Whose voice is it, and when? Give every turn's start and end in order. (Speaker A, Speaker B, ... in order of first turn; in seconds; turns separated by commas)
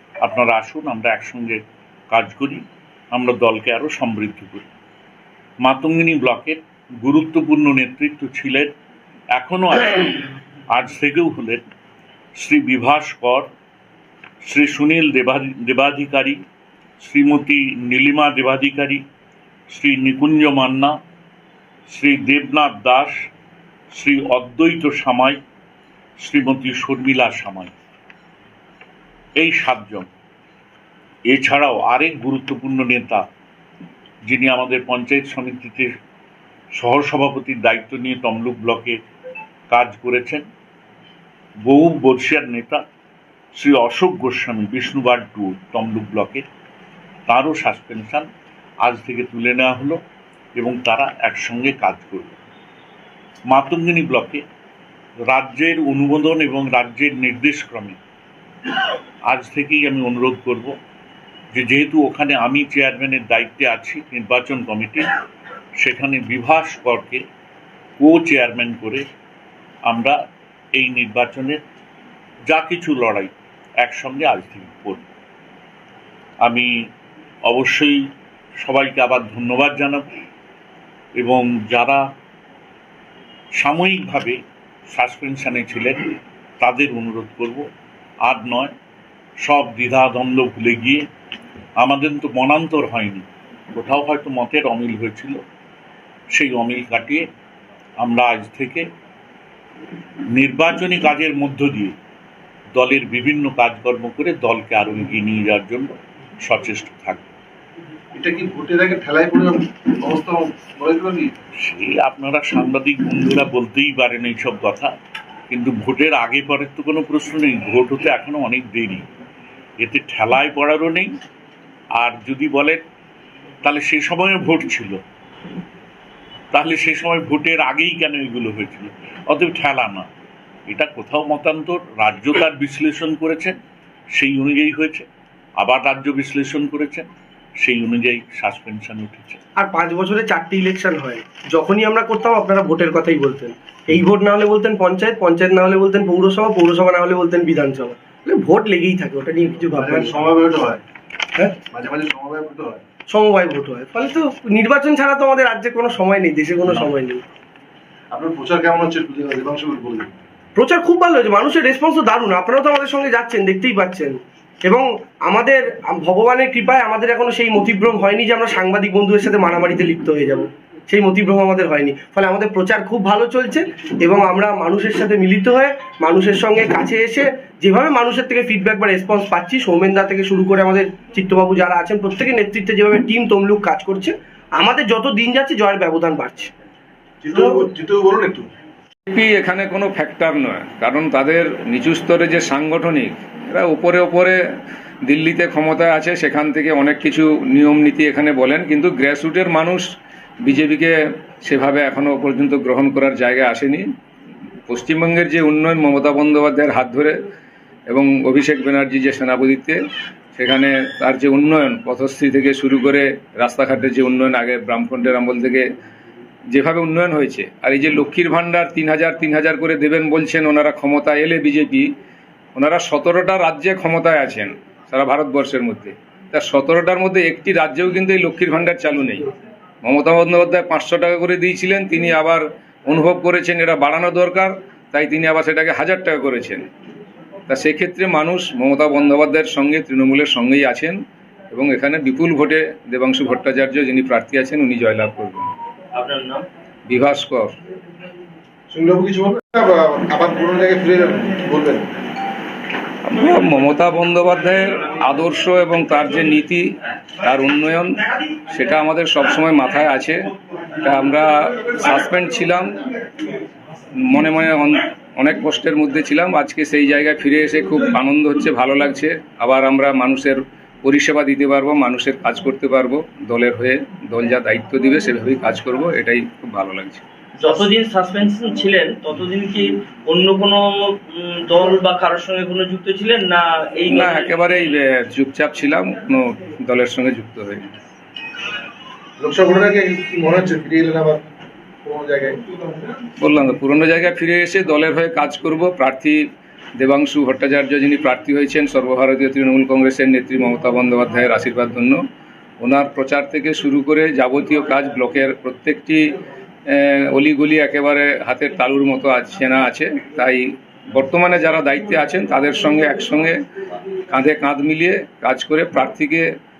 Speaker A: 0.2-4.7, Speaker A: 5.6-8.7, Speaker A: 9.4-10.2, Speaker A: 10.7-11.6, Speaker A: 12.4-13.5, Speaker A: 14.4-16.4, Speaker A: 17.0-19.0, Speaker A: 19.7-21.0, Speaker A: 21.9-23.1, Speaker A: 23.9-25.4, Speaker A: 26.2-27.7, Speaker A: 29.4-30.1, Speaker A: 31.3-33.2, Speaker A: 34.3-35.9, Speaker A: 36.8-39.0, Speaker A: 39.7-40.5, Speaker A: 41.7-42.8, Speaker A: 43.6-46.5, Speaker A: 47.3-48.3, Speaker A: 48.8-50.0, Speaker A: 50.6-52.4, Speaker A: 53.5-54.4, Speaker A: 55.3-58.0, Speaker A: 59.3-60.8, Speaker A: 61.5-65.1, Speaker A: 65.8-67.2, Speaker A: 68.0-69.0, Speaker A: 69.9-70.2, Speaker A: 70.8-71.6, Speaker A: 72.5-75.0, Speaker A: 76.5-76.7, Speaker A: 77.5-78.0, Speaker A: 78.6-80.1, Speaker A: 81.2-82.0, Speaker A: 83.6-84.4, Speaker A: 84.9-86.1, Speaker A: 86.6-87.7, Speaker A: 88.3-88.7, Speaker A: 89.4-91.0, Speaker A: 91.8-95.4, Speaker A: 96.3-97.3, Speaker A: 98.0-98.9, Speaker A: 100.3-101.9, Speaker A: 102.8-105.9, Speaker A: 106.5-107.3, Speaker B: 108.1-111.3, Speaker A: 111.6-114.9, Speaker A: 115.5-119.1, Speaker A: 119.8-121.1, Speaker A: 122.0-122.8, Speaker A: 123.6-125.0, Speaker A: 126.5-130.1, Speaker A: 130.7-133.6, Speaker A: 134.2-135.1, Speaker A: 135.6-139.4, Speaker C: 139.6-150.3, Speaker B: 149.7-150.8, Speaker B: 151.6-152.8, Speaker C: 153.1-157.2, Speaker B: 158.1-160.2, Speaker C: 160.6-186.5, Speaker B: 187.2-188.5, Speaker C: 187.4-187.6, Speaker D: 189.1-194.4, Speaker D: 195.1-199.9, Speaker D: 200.4-203.8, Speaker D: 204.7-207.2, Speaker D: 207.9-209.8, Speaker D: 210.3-215.7, Speaker D: 216.5-221.9, Speaker D: 222.6-229.2, Speaker D: 229.8-236.7, Speaker D: 237.5-241.0, Speaker D: 241.5-245.5, Speaker E: 245.9-246.4, Speaker D: 246.9-247.5, Speaker B: 248.7-251.9, Speaker D: 253.1-256.7, Speaker D: 257.2-257.9, Speaker D: 258.5-260.3, Speaker D: 260.8-262.7, Speaker D: 264.1-277.0, Speaker E: 277.4-284.6, Speaker D: 283.9-287.8, Speaker B: 289.2-291.3, Speaker B: 291.8-292.4, Speaker D: 293.2-296.2, Speaker D: 296.8-302.0, Speaker D: 302.6-306.0, Speaker D: 306.7-310.4, Speaker D: 310.9-313.4, Speaker D: 314.1-316.2